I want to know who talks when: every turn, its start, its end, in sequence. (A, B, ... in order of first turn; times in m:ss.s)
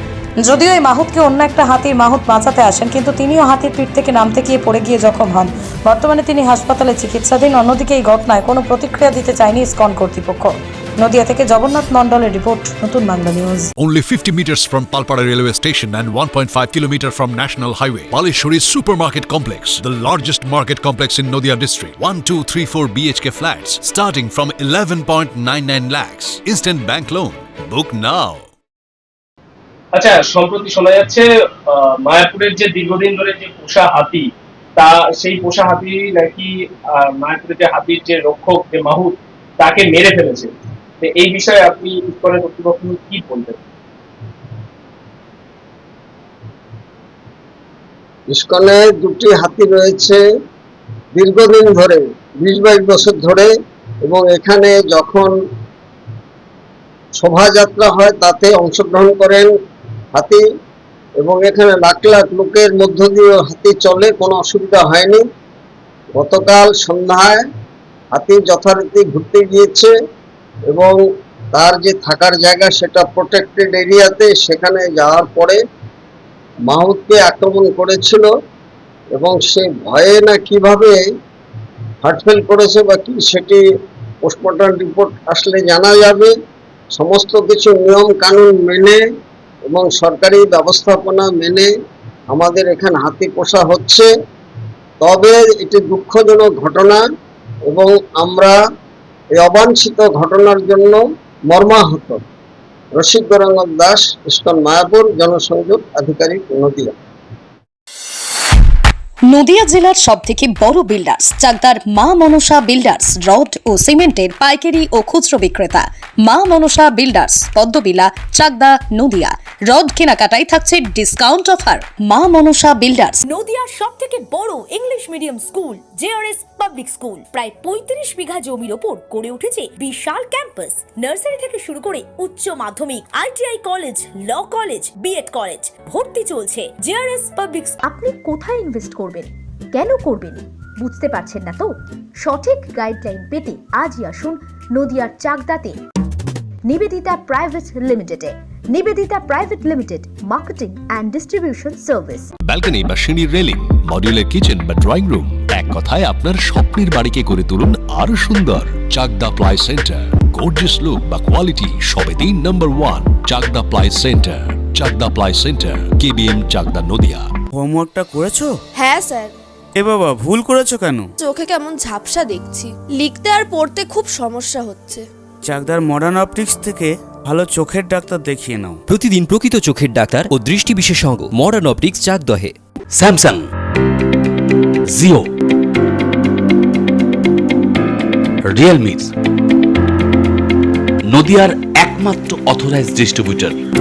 0:00.4-0:13.7 A
0:13.8-0:24.4 B
0:25.1-0:28.4 B
0:30.0-0:36.5 C
0:37.2-0:43.6 C
0:48.3-0:50.2 D
0:51.2-0:53.5 D
0:54.0-0:55.3 D
0:57.2-0:59.5 D
1:00.1-1:00.4 D
1:01.2-1:05.2 D
1:06.2-1:07.5 D
1:08.1-1:09.9 D
1:10.7-1:11.0 D
1:11.5-1:15.6 D
1:16.7-1:18.3 D
1:19.2-1:21.0 D
1:22.0-1:23.6 D
1:24.2-1:26.3 D
1:27.0-1:29.0 D
1:29.7-1:31.7 D
1:32.3-1:34.1 D
1:35.0-1:37.0 D
1:37.7-1:38.6 D
1:39.4-1:42.2 D
1:43.0-1:46.9 D
1:49.3-2:03.2 E
2:03.2-2:17.8 F
2:17.8-2:21.7 G
2:22.2-2:25.8 G
2:26.7-2:32.3 G
2:32.4-2:47.3 H
2:47.5-2:48.5 I
2:48.8-2:49.3 J
2:49.8-2:51.1 I
2:51.2-2:55.0 J
2:55.4-2:58.8 I
2:58.9-3:02.5 K
3:03.0-3:03.4 L
3:04.9-3:05.2 L
3:08.5-3:09.1 L
3:11.1-3:13.6 L